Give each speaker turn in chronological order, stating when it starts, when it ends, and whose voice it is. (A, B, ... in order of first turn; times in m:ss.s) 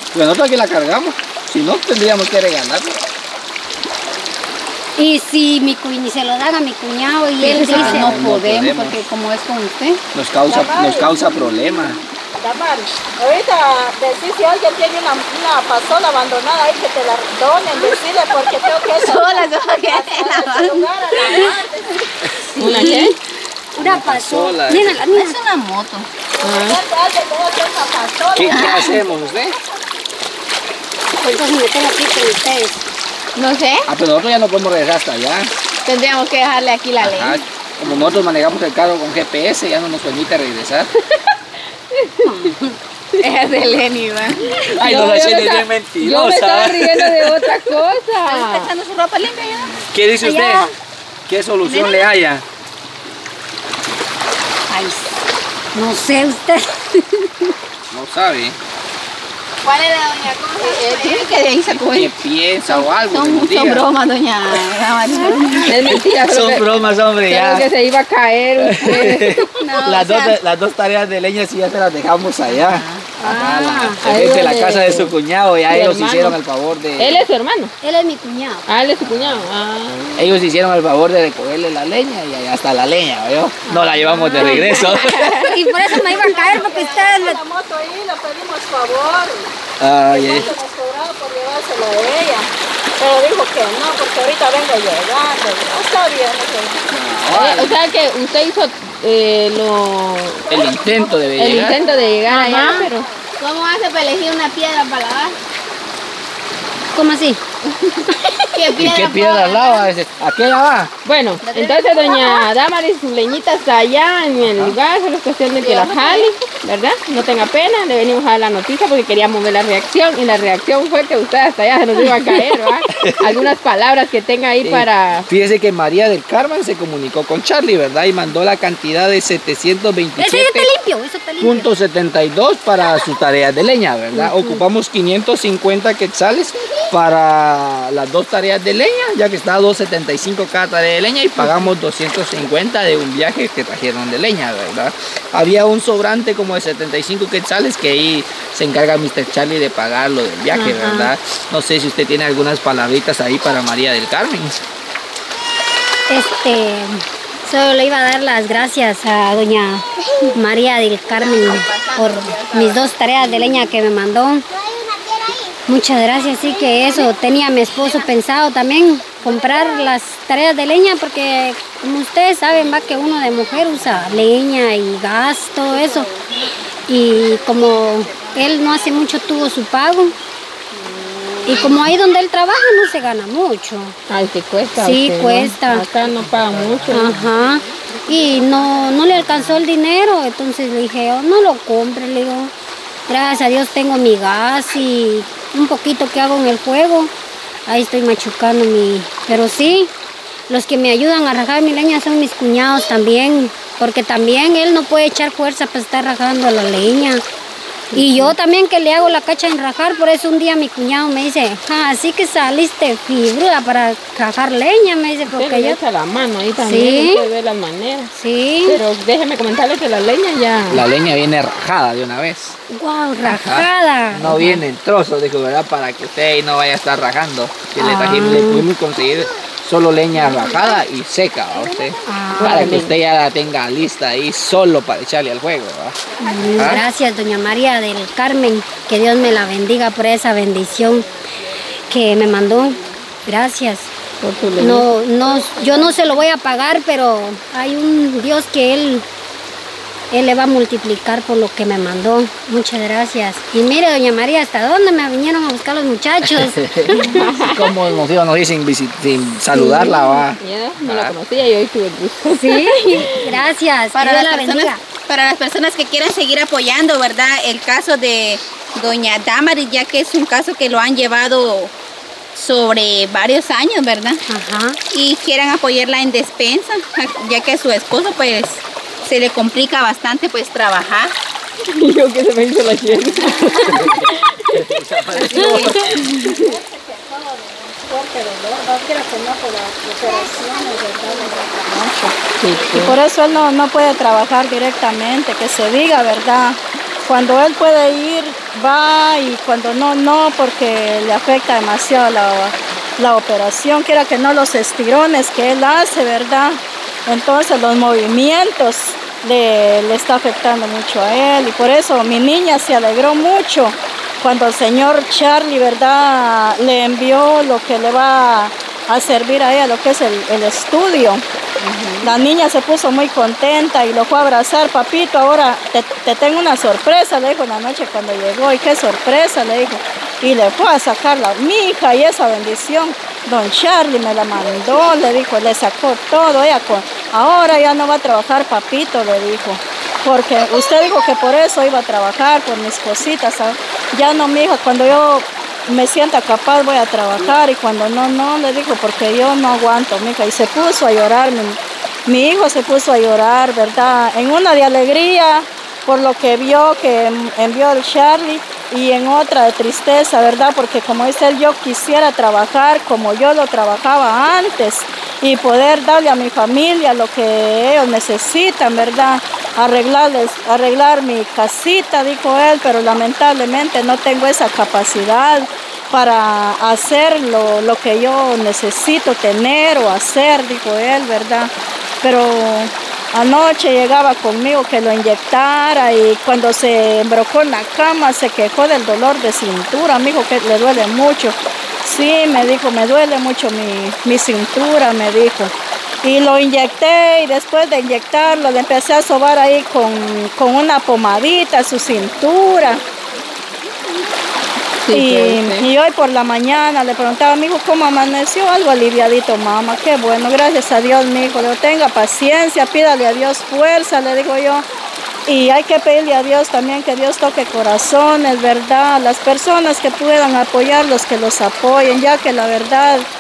0:00.1-0:03.0 A
0:05.0-0:08.3 B
0:07.4-0:10.0 C
0:07.6-0:09.0 A
0:10.1-0:12.0 A
0:10.4-0:11.3 D
0:12.4-0:22.0 D
0:19.0-0:21.5 C
0:22.2-0:22.5 A
0:22.6-0:23.2 E
0:22.6-0:23.1 B
0:23.8-0:25.4 B
0:23.8-0:25.0 A
0:25.1-0:26.1 C
0:26.3-0:29.7 D
0:26.4-0:26.8 E
0:28.3-0:29.6 A
0:28.5-0:29.0 C
0:31.2-0:32.8 B
0:33.4-0:33.9 C
0:33.9-0:35.5 A
0:35.8-0:37.4 C
0:37.0-0:40.9 A
0:41.9-0:42.3 E
0:42.2-0:42.8 B
0:43.2-0:44.5 C
0:44.6-0:48.7 E
0:44.7-0:47.4 A
0:48.2-0:49.8 C
0:49.9-0:50.6 A
0:50.2-0:50.7 B
0:51.3-0:52.4 A
0:51.6-0:52.1 C
0:54.7-0:55.2 B
0:55.7-0:57.5 B
0:57.9-0:58.6 A
0:59.6-1:02.1 C
1:00.6-1:01.2 B
1:01.7-1:03.9 A
1:02.6-1:05.7 C
1:05.0-1:05.4 B
1:05.6-1:07.6 A
1:05.6-1:06.7 E
1:07.3-1:09.4 E
1:08.6-1:17.2 A
1:09.6-1:10.4 C
1:12.4-1:13.1 C
1:13.2-1:14.0 B
1:14.0-1:15.1 E
1:15.7-1:16.4 E
1:17.0-1:17.7 E
1:17.8-1:18.6 B
1:18.7-1:20.3 E
1:19.0-1:19.4 A
1:20.2-1:26.1 A
1:23.7-1:25.5 E
1:24.3-1:24.9 B
1:25.4-1:27.4 B
1:26.0-1:29.5 D
1:29.8-1:30.5 A
1:30.0-1:36.8 D
1:36.9-1:37.8 A
1:37.3-1:40.6 E
1:40.4-1:43.2 D
1:40.5-1:41.8 A
1:41.4-1:43.1 E
1:42.2-1:42.9 B
1:42.3-1:42.8 C
1:43.4-1:45.4 C
1:46.9-1:47.4 B
1:48.0-1:49.9 C
1:48.7-1:50.9 A
1:51.0-2:05.3 E
1:51.4-1:52.4 C
1:54.5-1:54.8 A
1:55.6-1:56.3 C
2:02.9-2:03.2 A
2:04.6-2:10.7 A
2:10.2-2:11.7 B
2:11.4-2:34.6 A
2:14.1-2:14.6 B
2:30.5-2:31.1 B
2:36.1-2:44.4 B
2:41.1-2:43.7 C
2:44.8-2:45.4 C
2:45.7-2:56.1 B
2:46.2-2:48.1 C
2:49.2-2:49.9 C
2:55.7-2:56.4 C
2:56.9-3:00.1 B
2:57.2-2:59.0 C
3:01.1-3:01.8 E
3:01.4-3:04.0 B
3:04.1-3:07.2 E
3:04.8-3:05.8 B
3:06.4-3:07.0 A
3:06.9-3:12.5 B
3:13.1-3:17.1 B
3:17.7-3:19.9 B
3:20.5-3:27.2 B
3:27.9-3:28.3 E
3:27.9-3:35.8 B
3:35.3-3:38.1 E
3:36.6-3:37.2 B
3:38.1-3:38.8 B
3:38.6-3:40.8 E
3:40.7-3:42.6 A
3:42.7-3:44.6 B
3:43.2-3:56.0 A
3:47.8-3:48.7 B
3:52.0-3:52.7 B
3:52.4-3:52.9 E
3:56.1-3:56.6 C
3:56.2-4:01.1 B
3:56.5-3:56.8 A
4:01.9-4:03.9 B
4:04.2-4:04.9 E
4:04.6-4:09.0 B
4:10.1-4:17.2 B
4:16.3-4:21.1 A
4:16.9-4:17.8 E
4:19.5-4:20.3 B
4:20.4-4:23.4 E
4:22.2-4:24.8 B
4:23.9-4:31.7 C
4:32.3-4:34.2 C
4:34.3-4:34.8 B
4:34.9-4:41.1 C
4:41.7-4:46.4 E
4:43.5-4:46.2 A
4:45.2-4:52.2 D
4:45.3-4:45.7 B
4:50.0-4:51.3 B
4:52.4-4:53.0 E
4:52.7-5:21.2 D
5:21.6-5:22.1 C
5:22.0-6:42.8 D
6:44.8-6:45.6 E
6:44.9-6:54.6 D
6:55.3-7:03.1 D